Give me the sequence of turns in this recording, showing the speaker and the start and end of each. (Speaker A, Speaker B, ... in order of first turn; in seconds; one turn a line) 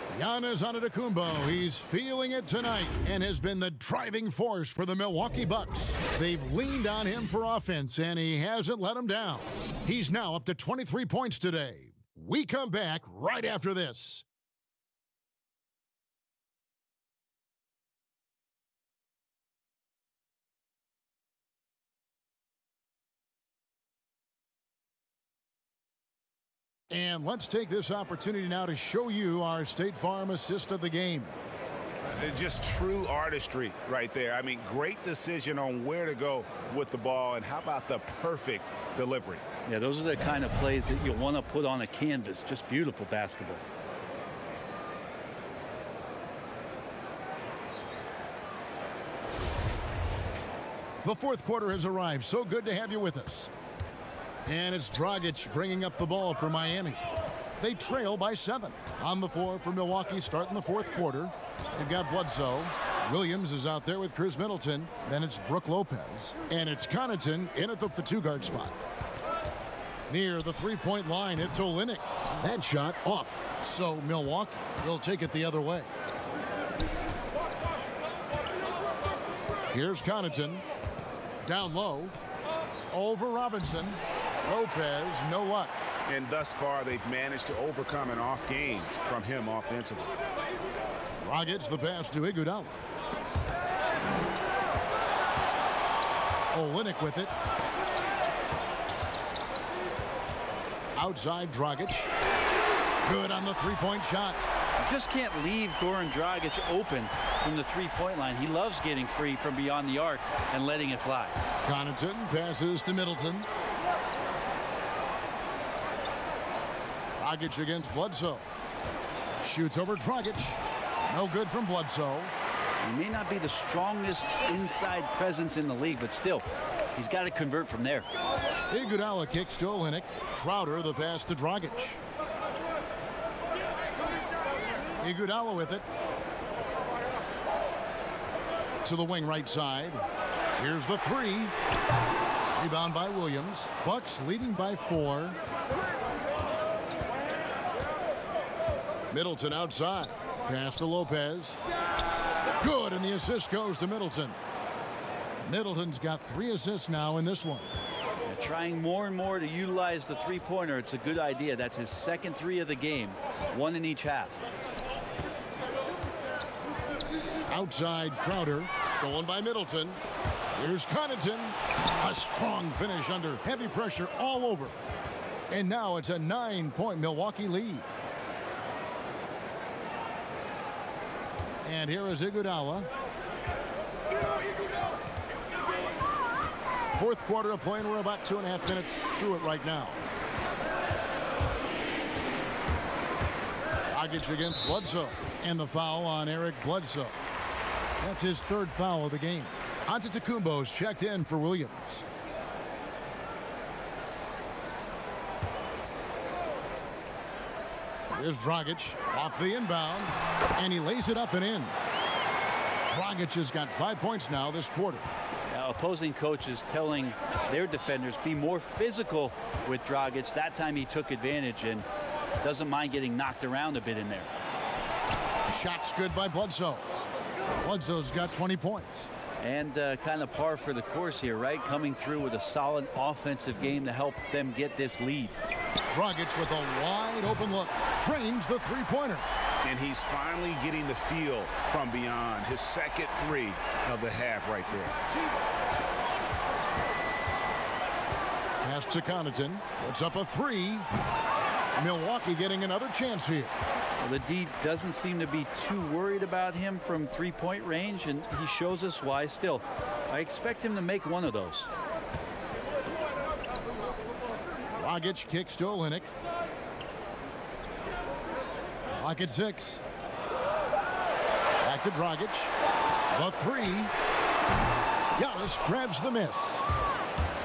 Speaker A: 0.1-14.2
Speaker A: 26.9-31.4
Speaker B: 32.2-39.5
Speaker C: 39.7-43.6
Speaker A: 51.0-53.5
Speaker A: 54.5-57.0
Speaker A: 57.6-68.8
Speaker A: 70.1-75.9
Speaker A: 79.7-80.7
Speaker A: 81.4-82.1
Speaker A: 82.9-85.8
Speaker B: 86.1-90.1
Speaker A: 91.2-92.8
Speaker A: 96.5-97.3
Speaker A: 101.0-102.1
Speaker A: 103.0-104.5
Speaker C: 104.8-111.4
Speaker A: 111.6-113.5
Speaker A: 117.2-118.5
Speaker A: 119.4-122.3
Speaker C: 122.8-128.1
Speaker A: 128.7-132.0
Speaker A: 135.0-135.8
Speaker A: 138.8-140.0
Speaker A: 140.6-141.6
Speaker A: 142.5-145.4
Speaker A: 149.1-151.6
Speaker A: 152.6-154.4
Speaker A: 155.4-157.7
Speaker C: 158.3-164.4
Speaker A: 167.5-170.0
Speaker A: 170.5-174.8
Speaker A: 175.5-177.9
Speaker A: 181.6-182.9
Speaker A: 186.9-190.0
Speaker A: 193.9-197.2
Speaker A: 198.0-202.1
Speaker A: 208.1-211.8
Speaker A: 212.9-215.1
Speaker C: 215.5-221.9
Speaker C: 222.4-224.3
Speaker A: 225.4-226.9
Speaker A: 227.6-229.1
Speaker C: 229.4-235.3
Speaker A: 235.9-239.3
Speaker B: 239.6-244.9
Speaker A: 248.6-250.9
Speaker A: 251.8-253.5
Speaker C: 254.0-261.7
Speaker A: 264.8-266.1
Speaker A: 269.0-269.8
Speaker A: 271.6-272.5
Speaker A: 273.1-273.9
Speaker A: 275.1-276.6